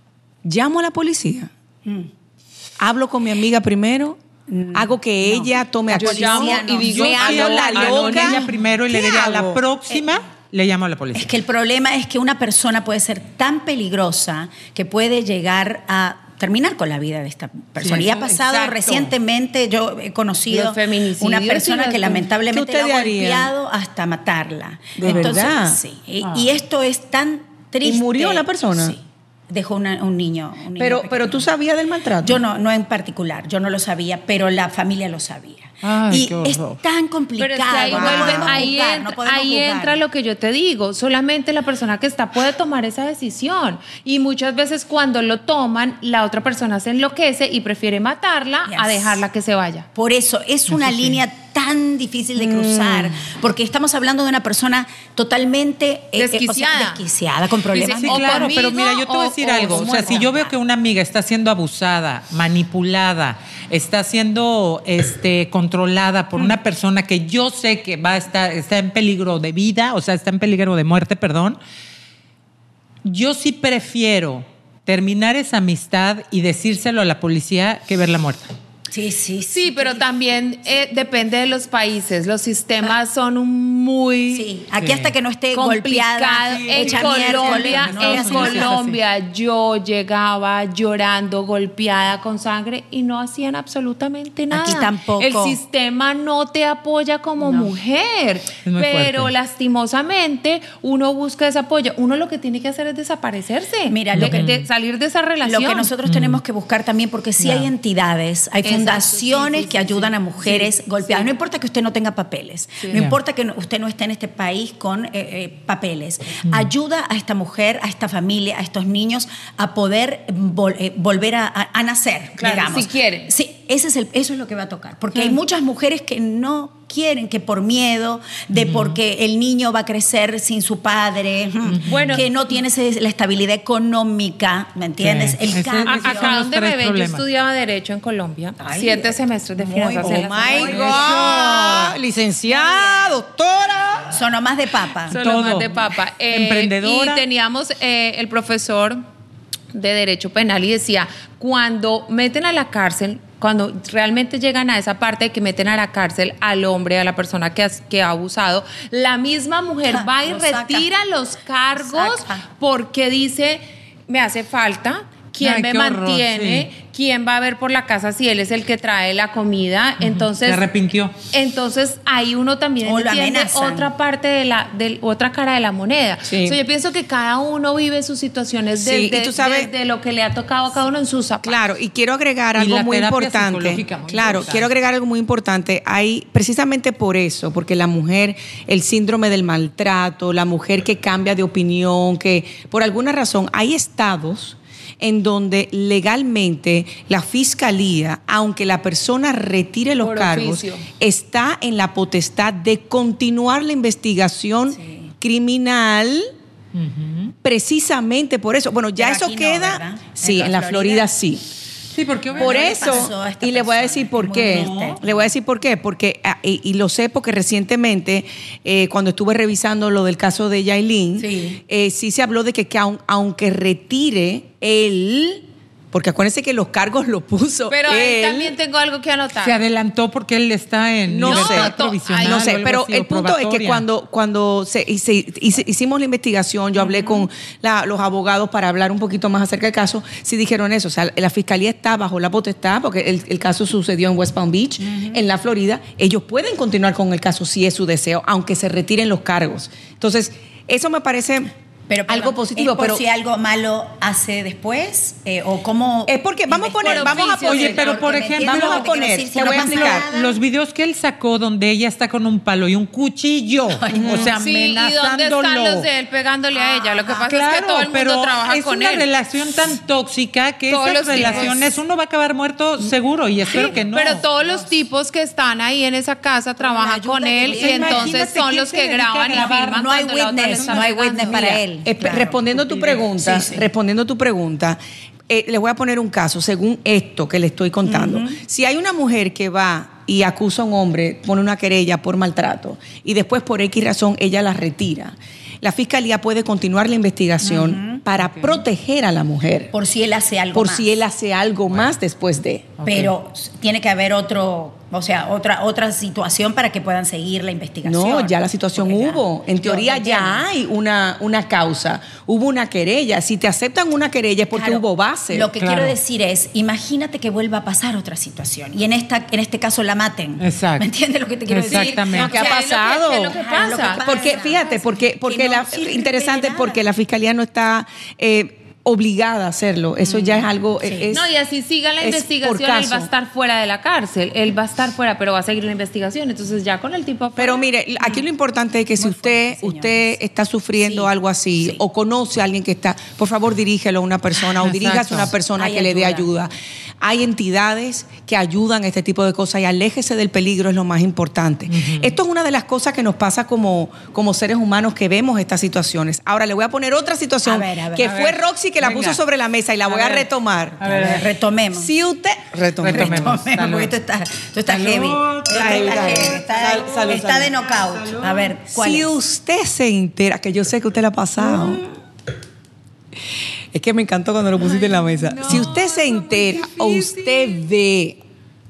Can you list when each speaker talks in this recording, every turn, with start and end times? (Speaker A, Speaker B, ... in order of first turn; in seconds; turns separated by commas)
Speaker A: 0.4-1.5, Speaker A: 2.8-4.2, Speaker B: 4.5-7.7, Speaker A: 4.7-9.6, Speaker C: 5.9-8.5, Speaker D: 6.7-11.3, Speaker B: 9.9-10.1, Speaker B: 11.1-31.5, Speaker D: 17.8-19.1, Speaker C: 20.5-22.3, Speaker A: 22.5-23.5, Speaker A: 25.0-25.8, Speaker D: 25.0-25.4, Speaker D: 26.2-26.5, Speaker A: 27.8-29.0, Speaker A: 30.8-32.4, Speaker B: 32.2-40.0, Speaker D: 35.8-36.8, Speaker C: 37.4-49.9, Speaker A: 37.8-38.7, Speaker B: 48.7-49.2, Speaker B: 49.9-58.6, Speaker A: 52.4-53.0, Speaker C: 56.1-57.0, Speaker C: 57.7-60.3, Speaker D: 57.8-71.6, Speaker B: 59.7-60.5, Speaker D: 73.0-78.5, Speaker B: 78.9-80.1, Speaker C: 79.5-84.5, Speaker B: 84.3-88.9, Speaker D: 84.8-85.1, Speaker C: 85.5-105.9, Speaker D: 86.5-88.9, Speaker B: 94.5-95.6, Speaker B: 97.4-97.7, Speaker D: 98.6-99.3, Speaker B: 103.9-104.5, Speaker D: 104.1-104.7, Speaker B: 105.4-136.4, Speaker D: 106.0-106.4, Speaker D: 107.4-107.7, Speaker C: 108.6-111.3, Speaker D: 116.5-116.7, Speaker C: 122.4-123.3, Speaker D: 128.5-129.0, Speaker D: 131.7-132.2, Speaker C: 131.8-132.3, Speaker D: 135.0-137.2, Speaker C: 135.8-141.0, Speaker B: 138.6-141.9, Speaker A: 140.0-144.1, Speaker D: 140.6-142.0, Speaker B: 142.4-143.1, Speaker B: 144.1-145.2, Speaker C: 145.1-149.0, Speaker D: 145.1-147.2, Speaker C: 149.7-170.6, Speaker B: 159.9-160.9, Speaker B: 161.8-162.4, Speaker D: 165.4-166.7, Speaker D: 170.0-171.1, Speaker C: 171.3-181.6, Speaker B: 172.8-173.9, Speaker A: 176.2-176.6, Speaker A: 178.8-179.7, Speaker A: 181.4-206.3, Speaker D: 182.6-184.7, Speaker C: 200.0-200.8, Speaker B: 204.7-205.1, Speaker D: 206.7-207.3, Speaker A: 207.4-211.4, Speaker B: 208.9-211.1, Speaker D: 211.9-213.1, Speaker B: 212.3-215.0, Speaker A: 212.3-228.6, Speaker D: 214.2-215.2, Speaker B: 221.2-221.6, Speaker C: 227.7-229.6, Speaker D: 229.4-233.8, Speaker A: 231.1-251.5, Speaker C: 231.2-232.6, Speaker B: 244.8-245.2, Speaker B: 251.9-260.4, Speaker A: 252.1-253.0, Speaker A: 256.1-257.9, Speaker C: 256.8-258.2, Speaker D: 257.3-265.9, Speaker A: 258.4-260.1, Speaker B: 263.7-264.3, Speaker A: 263.9-264.3, Speaker C: 264.4-269.1, Speaker B: 266.5-267.3, Speaker D: 267.2-274.2, Speaker C: 270.7-271.7, Speaker B: 271.1-271.6, Speaker B: 273.4-274.7, Speaker C: 273.5-281.6, Speaker B: 276.6-278.1, Speaker D: 277.4-279.9, Speaker B: 279.3-283.6, Speaker D: 280.5-281.5, Speaker A: 281.8-299.7, Speaker B: 287.9-288.4, Speaker B: 297.4-298.0, Speaker D: 298.2-298.6, Speaker B: 299.7-300.8, Speaker A: 300.5-302.8, Speaker D: 302.8-303.1, Speaker B: 302.9-310.4, Speaker A: 307.8-315.5, Speaker B: 314.5-322.6, Speaker D: 315.6-316.0, Speaker D: 320.4-320.9, Speaker D: 321.5-322.3, Speaker C: 321.7-324.1, Speaker A: 322.1-323.4, Speaker B: 323.3-326.8, Speaker A: 324.0-331.3, Speaker B: 330.0-331.1, Speaker C: 331.1-337.7, Speaker A: 332.0-333.1, Speaker A: 337.4-360.9, Speaker B: 338.0-340.2, Speaker B: 340.8-341.8, Speaker D: 344.5-345.3, Speaker B: 345.5-346.2, Speaker D: 351.7-352.1, Speaker B: 357.4-358.3, Speaker D: 358.0-359.2, Speaker D: 359.9-360.3, Speaker D: 360.8-361.3, Speaker B: 360.8-361.9, Speaker A: 361.7-363.4, Speaker D: 362.6-363.9, Speaker B: 362.9-369.2, Speaker D: 364.7-368.5, Speaker A: 365.5-367.0, Speaker A: 368.7-371.8, Speaker B: 371.4-371.9, Speaker A: 373.7-378.2, Speaker C: 375.1-375.6, Speaker D: 375.4-377.5